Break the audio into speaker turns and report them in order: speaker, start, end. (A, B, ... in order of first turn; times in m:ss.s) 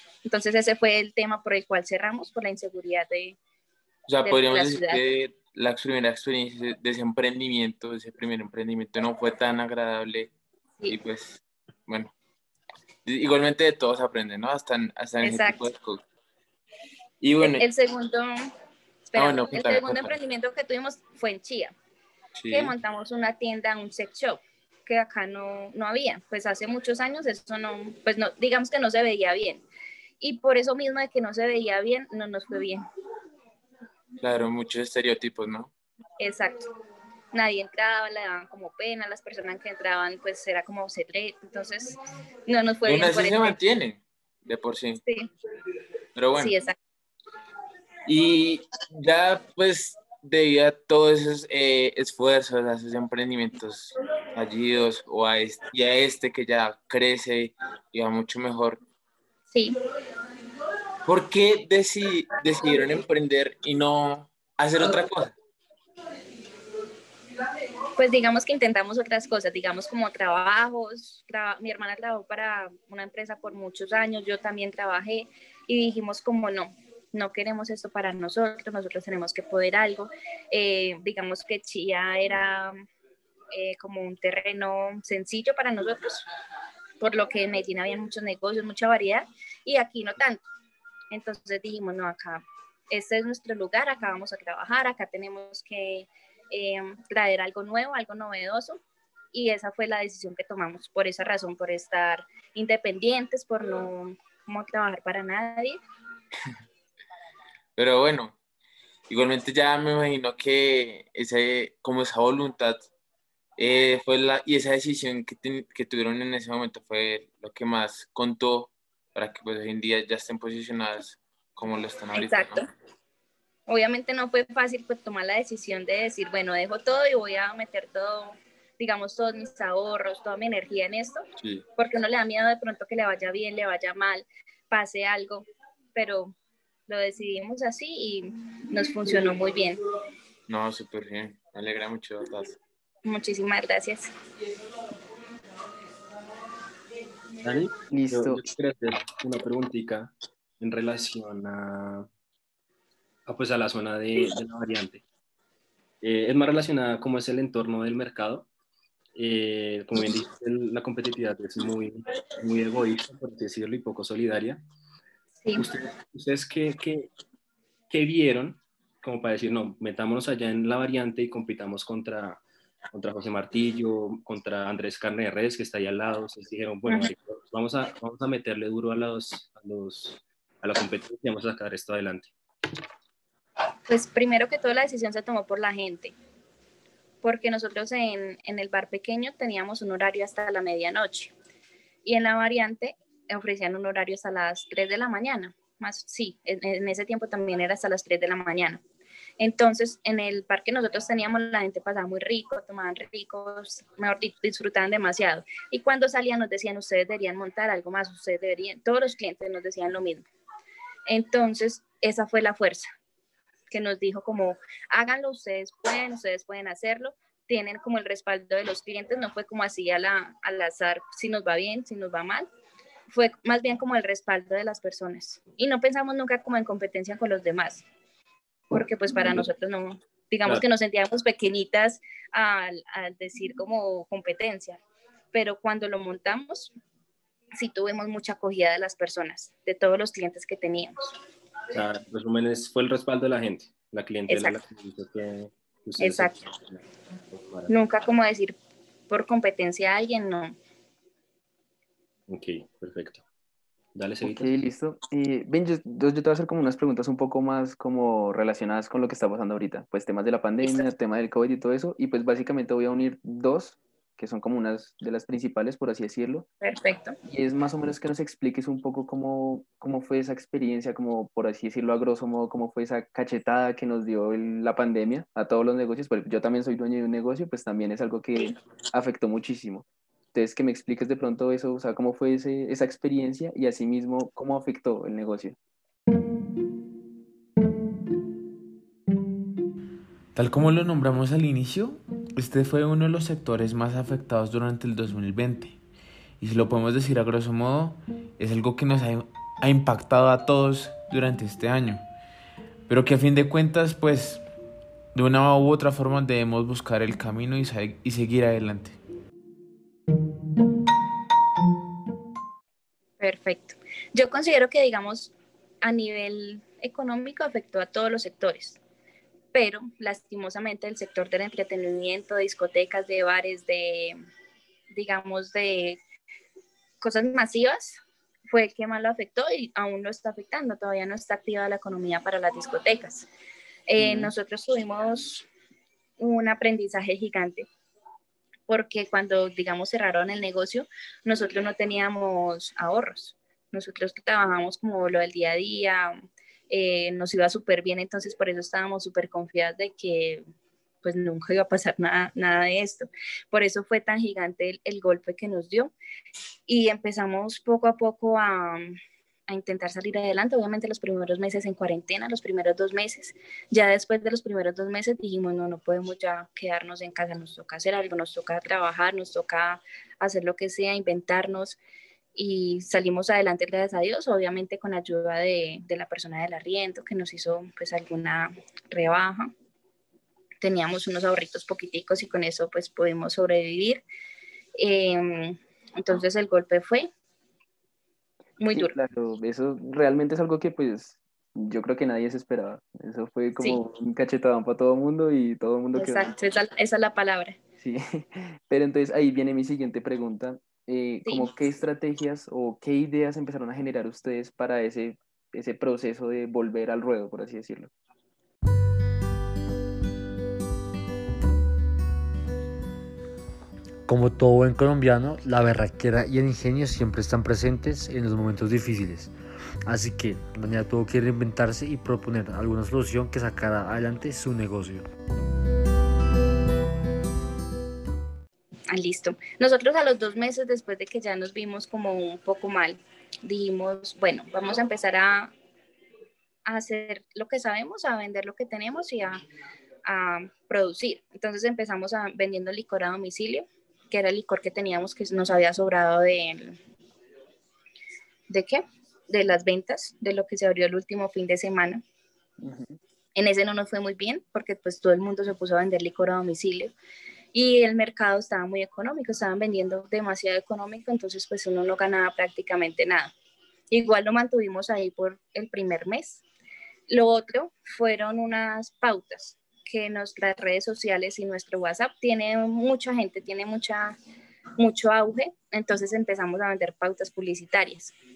0:00.3-0:03.4 A
0:04.1-0:10.3 B
0:04.2-0:05.0 A
0:10.9-0:12.1 B
0:13.1-0:16.0 B
0:15.2-0:15.7 A
0:17.2-0:17.6 B
0:17.4-0:18.5 A
0:19.1-0:21.7 A
0:19.2-0:20.1 B
0:22.4-0:22.8 B
0:22.5-0:29.6 A
0:30.2-0:32.8 A
0:34.2-0:35.7 B
0:36.2-0:36.7 A
0:37.3-0:43.6 A
0:42.9-0:45.0 B
0:45.0-0:45.3 A
0:46.2-0:46.6 B
0:46.4-0:46.8 A
0:48.1-0:58.8 B
0:59.5-0:59.8 A
1:01.0-1:05.4 B
1:08.0-1:22.8 A
1:23.5-1:26.3 A
1:27.0-1:30.4 A
1:31.1-1:38.8 A
1:39.3-1:45.8 A
1:47.8-1:48.4 B
1:49.1-1:52.9 B
1:53.6-2:02.6 B
2:02.1-2:02.7 A
2:03.7-2:11.2 A
2:11.4-2:11.6 B
2:11.8-2:16.4 A
2:16.9-2:19.8 A
2:20.5-2:22.6 B
2:23.0-2:24.1 A
2:27.4-2:32.1 C
2:27.9-2:28.4 D
2:33.3-2:35.0 C
2:36.0-2:38.5 C
2:39.2-2:44.6 C
2:45.6-2:47.1 C
2:47.9-2:52.4 C
2:52.9-3:02.3 C
2:56.9-2:57.1 A
3:03.9-3:06.2 A
3:07.2-3:11.3 A
3:12.0-3:18.8 A
3:19.4-3:30.3 A
3:31.1-3:32.9 A
3:33.7-3:42.5 A
3:43.1-3:47.8 A
3:48.7-3:54.8 A
3:55.3-3:56.7 A
3:57.6-4:01.2 A
4:01.7-4:07.7 C
4:04.3-4:04.6 A
4:06.0-4:06.5 A
4:07.7-4:08.6 A
4:09.1-4:10.6 A
4:12.3-4:13.2 C
4:14.0-4:14.5 C
4:14.2-4:26.5 D
4:26.6-4:27.2 A
4:27.3-4:45.6 D
4:50.4-4:55.8 B
4:56.4-5:02.0 B
5:02.9-5:04.4 B
5:05.2-5:09.0 B
5:13.2-5:18.8 A
5:19.5-5:24.2 A
5:24.9-5:26.0 A
5:27.0-5:33.3 A
5:33.9-5:35.5 A
5:34.0-5:34.3 D
5:36.2-5:37.7 A
5:38.7-5:50.4 A
5:51.0-5:55.9 A
5:56.7-5:59.0 A
5:59.5-6:11.8 A
6:12.4-6:19.5 A
6:20.6-6:24.0 A
6:24.8-6:27.1 A
6:28.6-6:29.0 A
6:28.7-6:36.3 D
6:36.0-6:37.6 A
6:37.8-6:47.9 D
6:41.2-6:41.5 A
6:54.1-6:59.3 E
6:59.9-7:05.1 E
7:08.9-7:15.5 A
7:16.7-7:19.4 A
7:20.0-7:26.8 A
7:28.5-7:32.0 A
7:32.6-7:33.0 D
7:33.4-7:36.9 A
7:37.5-7:43.3 A
7:43.9-7:46.4 A
7:47.1-7:54.2 A
7:54.8-7:58.1 A